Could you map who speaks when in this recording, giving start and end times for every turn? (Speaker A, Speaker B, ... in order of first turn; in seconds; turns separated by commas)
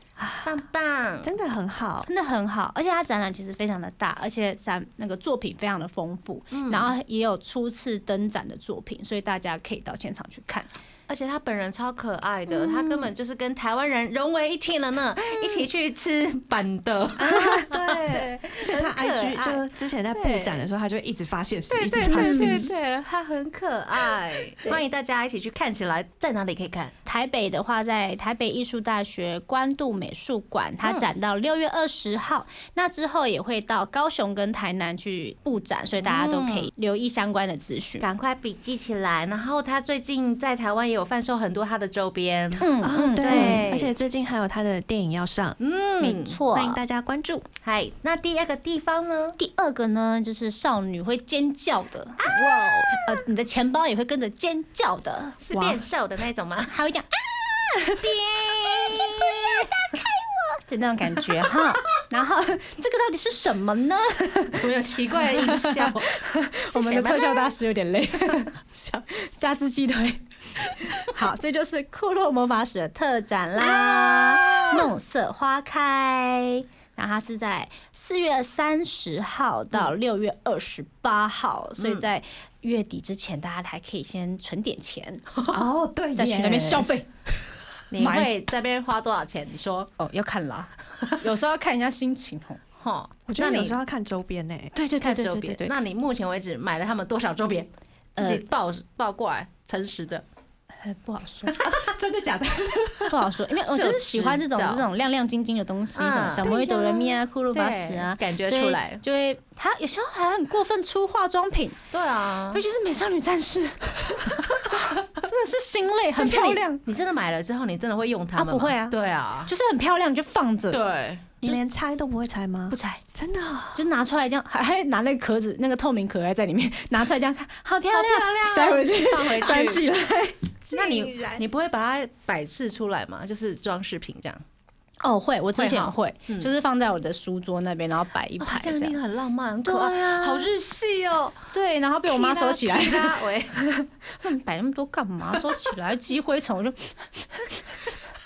Speaker A: 0.2-0.6, Speaker B: 0.4-1.3, Speaker A: 1.2-2.1, Speaker C: 2.1-10.7, Speaker B: 6.5-6.9, Speaker B: 11.1-20.6, Speaker C: 12.5-13.0, Speaker A: 17.2-22.8, Speaker B: 21.7-26.9, Speaker C: 22.0-22.7, Speaker C: 27.1-38.1, Speaker B: 36.0-36.7, Speaker B: 38.0-43.9, Speaker C: 42.6-43.7, Speaker A: 42.8-45.6, Speaker B: 45.6-46.4, Speaker C: 46.0-46.8, Speaker A: 46.5-47.5, Speaker B: 47.6-49.4, Speaker C: 49.4-55.8, Speaker A: 52.2-52.9, Speaker B: 55.4-56.7, Speaker C: 56.7-64.7, Speaker B: 64.5-66.2, Speaker C: 65.2-68.5, Speaker B: 66.7-67.5, Speaker A: 68.7-69.1, Speaker C: 69.1-70.2, Speaker C: 70.8-85.2, Speaker A: 73.6-74.9, Speaker B: 81.8-82.0, Speaker B: 85.3-85.6, Speaker A: 85.5-86.9, Speaker C: 86.2-87.1, Speaker B: 87.9-89.9, Speaker C: 88.0-88.3, Speaker C: 90.0-92.6, Speaker B: 92.8-93.8, Speaker A: 93.3-94.8, Speaker C: 94.8-95.7, Speaker B: 95.0-100.2, Speaker C: 98.2-98.4, Speaker C: 100.8-101.5, Speaker B: 101.5-101.7, Speaker A: 101.6-103.2, Speaker C: 103.1-111.8, Speaker B: 103.7-104.9, Speaker B: 106.0-106.6, Speaker A: 106.4-107.1, Speaker B: 107.5-109.0, Speaker B: 111.9-112.6, Speaker C: 112.5-116.8, Speaker B: 116.2-119.5, Speaker C: 118.4-120.8, Speaker B: 120.7-121.3, Speaker A: 121.4-123.9, Speaker C: 122.7-123.0, Speaker C: 123.7-130.4, Speaker B: 127.9-129.8, Speaker A: 130.6-131.5, Speaker B: 130.7-134.4, Speaker C: 135.0-139.0, Speaker B: 135.6-136.5, Speaker B: 138.4-141.4, Speaker C: 139.7-140.5, Speaker C: 141.5-147.9, Speaker B: 142.1-143.6